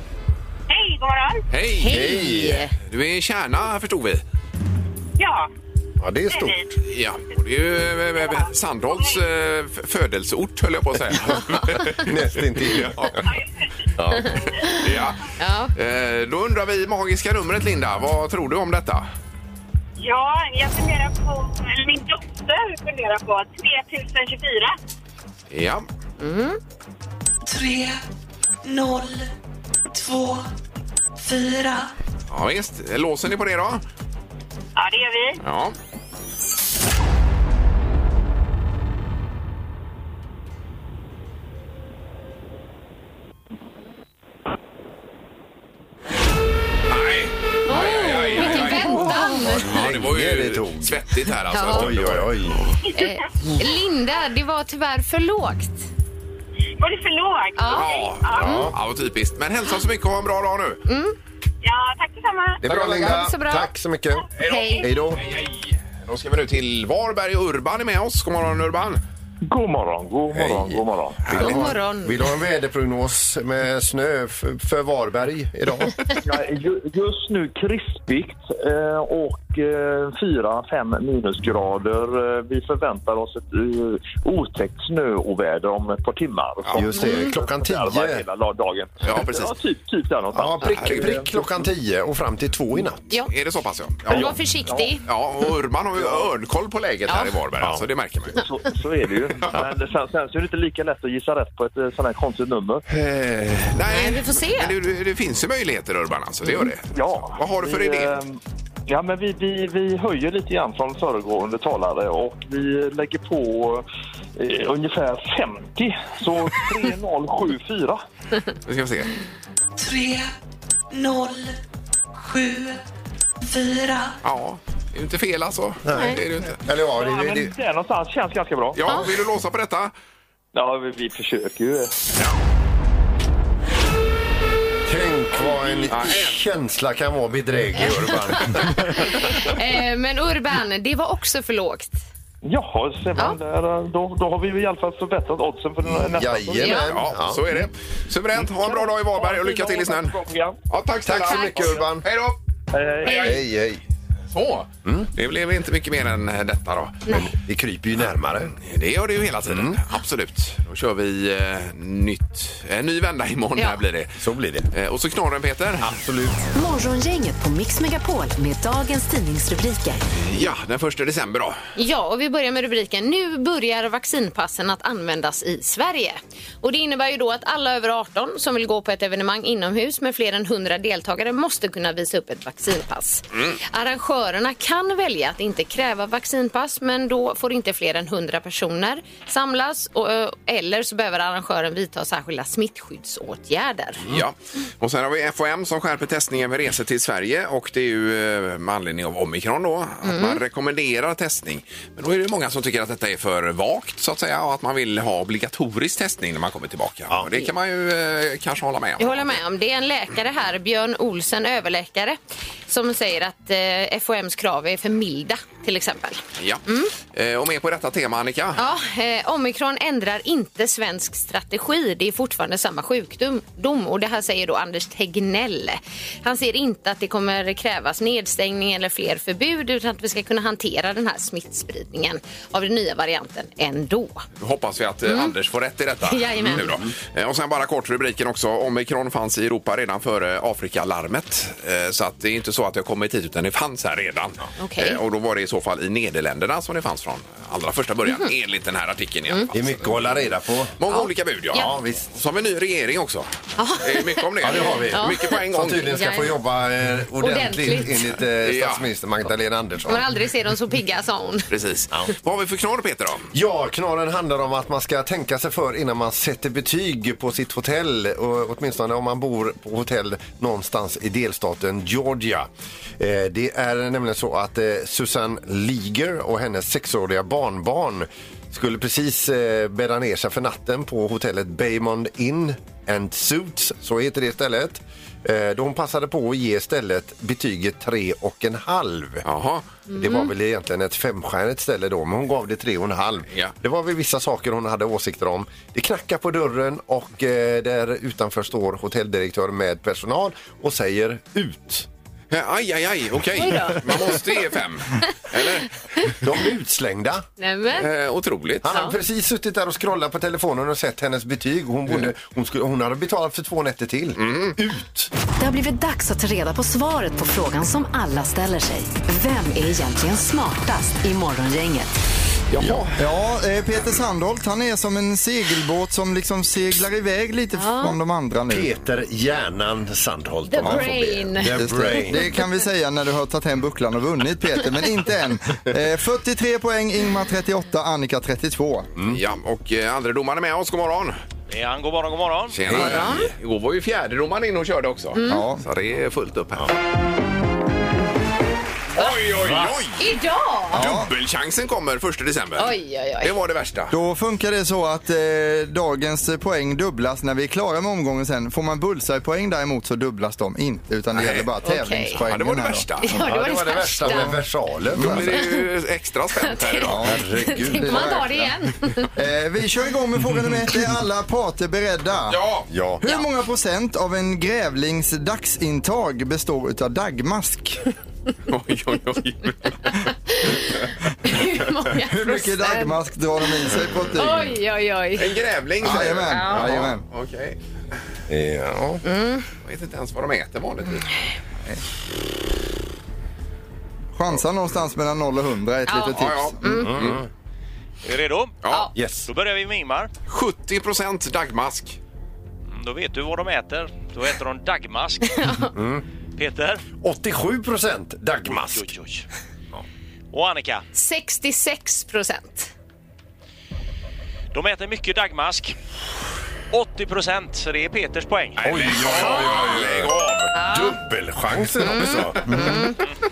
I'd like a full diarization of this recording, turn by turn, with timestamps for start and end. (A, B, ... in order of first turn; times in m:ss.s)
0:00.7-0:01.4 A
0:01.5-0:04.2 B
0:01.8-0:02.7 C
0:01.9-0:02.6 D
0:05.2-0:05.5 A
0:06.0-0:06.7 D
0:06.3-0:06.8 A
0:06.9-0:13.1 B
0:08.2-0:09.2 A
0:11.2-0:13.3 D
0:13.3-0:13.9 A
0:14.0-0:14.4 D
0:14.2-0:15.7 C
0:14.6-0:15.2 B
0:15.8-0:19.1 B
0:20.0-0:24.7 A
0:25.5-0:25.9 B
0:26.2-0:26.6 C
0:27.4-0:28.0 E
0:28.6-0:29.3 E
0:29.9-0:30.5 E
0:31.2-0:31.9 E
0:32.3-0:33.8 B
0:34.8-0:35.4 A
0:35.4-0:35.8 B
0:46.9-0:52.7 B
0:47.7-0:49.8 C
0:48.7-0:52.7 D
0:51.5-0:51.9 C
0:52.9-0:53.2 A
0:52.9-0:55.9 C
0:56.8-0:58.6 A
0:57.6-0:58.7 C
0:57.7-1:00.8 B
0:58.4-0:58.8 D
1:00.9-1:01.2 C
1:01.6-1:02.7 A
1:02.6-1:04.3 D
1:02.7-1:03.7 C
1:02.7-1:03.2 B
1:04.4-1:09.0 B
1:04.4-1:04.9 C
1:04.8-1:05.2 D
1:09.5-1:11.6 F
1:10.3-1:16.2 D
1:11.3-1:12.2 C
1:16.2-1:31.4 F
1:26.7-1:28.2 D
1:26.9-1:27.3 C
1:29.0-1:29.6 B
1:30.3-1:33.0 D
1:30.6-1:31.2 B
1:33.3-1:34.4 B
1:34.1-1:35.0 C
1:34.1-1:35.0 F
1:35.0-1:38.4 B
1:37.1-1:37.4 C
1:38.3-1:42.8 F
1:43.0-1:48.1 B
1:43.1-1:43.6 D
1:43.9-1:44.7 C
1:46.9-1:53.8 F
1:54.4-1:58.0 F
1:58.6-1:59.1 B
1:59.8-2:00.3 E
2:00.9-2:01.6 E
2:02.2-2:02.8 E
2:03.4-2:04.2 E
2:04.2-2:06.6 B
2:05.8-2:07.5 D
2:06.9-2:08.8 F
2:08.8-2:09.9 B
2:10.5-2:11.9 F
2:14.9-2:19.5 D
2:15.9-2:16.4 B
2:17.8-2:22.0 C
2:22.4-2:26.8 F
2:25.8-2:27.4 D
2:26.6-2:26.9 C
2:26.7-2:30.2 B
2:28.4-2:30.6 F
2:30.7-2:32.4 B
2:31.0-2:32.0 D
2:32.7-2:33.4 F
2:33.0-2:33.4 B
2:33.0-2:33.4 C
2:33.2-2:33.8 D
2:34.3-2:37.1 B
2:37.1-2:38.6 D
2:38.5-2:44.2 B
2:39.5-2:39.8 D
2:44.2-2:44.7 D
2:44.7-2:45.9 B
2:45.8-2:46.5 D
2:46.5-2:50.0 G
2:50.2-2:51.6 B
2:51.8-3:14.0 C
3:14.1-3:29.4 B
3:20.0-3:20.4 C
3:29.0-3:36.9 C
3:36.4-3:38.6 B
3:38.6-3:54.2 C
3:54.4-4:10.2 B
3:55.1-3:55.3 C
3:56.0-3:56.7 C
4:04.6-4:05.0 C
4:08.1-4:08.3 C
4:09.5-4:10.8 D
4:10.8-4:16.1 B
4:10.9-4:11.7 C
4:11.5-4:12.1 D
4:13.6-4:16.4 C
4:14.4-4:20.1 D
4:17.2-4:18.2 C
4:18.4-4:18.8 B
4:19.9-4:21.5 C
4:21.5-4:23.3 B
4:23.3-4:49.2 D
4:49.2-4:49.6 B
4:49.9-4:50.3 C
4:49.9-5:01.9 D
5:02.3-5:05.7 B
5:03.4-5:04.4 C
5:06.2-5:07.3 D
5:07.4-5:07.9 C
5:07.7-5:08.7 B
5:08.6-5:15.1 D
5:08.7-5:09.0 C
5:14.2-5:14.6 B
5:15.4-5:22.0 G
5:22.5-5:23.0 B
5:22.6-5:22.9 D
5:23.0-5:28.7 H
5:27.6-5:28.0 C
5:28.5-5:32.3 D
5:30.5-5:32.4 C
5:30.6-5:30.9 H
5:31.5-5:38.9 H
5:39.1-5:41.2 B
5:41.5-5:42.6 I
5:42.5-5:46.8 B
5:42.6-5:43.3 D
5:42.7-5:43.3 C
5:45.2-5:45.4 C
5:45.3-5:45.6 H
5:48.9-5:50.0 B
5:50.0-5:50.9 C
5:50.7-5:51.1 H
5:50.7-5:54.0 B
5:52.6-5:53.3 C
5:53.9-6:02.9 H
6:01.1-6:01.5 B
6:01.6-6:02.2 C
6:02.2-6:03.2 B
6:03.0-6:04.3 C
6:03.1-6:05.4 D
6:04.1-6:04.4 H
6:04.9-6:05.3 H
6:05.0-6:07.0 B
6:05.2-6:05.7 C
6:06.4-6:09.1 C
6:06.9-6:08.4 H
6:07.0-6:08.3 D
6:09.2-6:12.4 H
6:12.3-6:12.7 B
6:12.7-6:13.0 D
6:13.0-6:17.8 H
6:18.5-6:20.1 B
6:19.9-6:23.0 C
6:21.9-6:24.6 H
6:24.2-6:25.3 C
6:25.2-6:27.6 B
6:25.8-6:27.0 H
6:26.3-6:26.7 C
6:28.3-6:29.0 D
6:29.0-6:29.5 C
6:29.6-6:31.1 B
6:34.2-6:36.9 H
6:35.9-6:37.0 C
6:36.1-6:37.2 B
6:36.7-6:37.3 D
6:38.0-6:40.1 I
6:38.6-6:38.9 B
6:39.0-6:39.3 D
6:40.3-6:42.0 B
6:42.7-6:45.6 I
6:45.2-6:45.7 C
6:45.7-6:46.0 D
6:46.4-6:46.8 I
6:47.0-6:48.9 D
6:48.5-6:49.3 I
6:50.3-6:50.9 I
6:50.9-6:52.7 C
6:54.5-6:55.8 I
6:56.7-6:58.9 I
6:58.6-7:00.5 B
6:58.6-7:02.9 D
7:00.5-7:01.0 C
7:01.8-7:03.0 C
7:02.5-7:02.9 H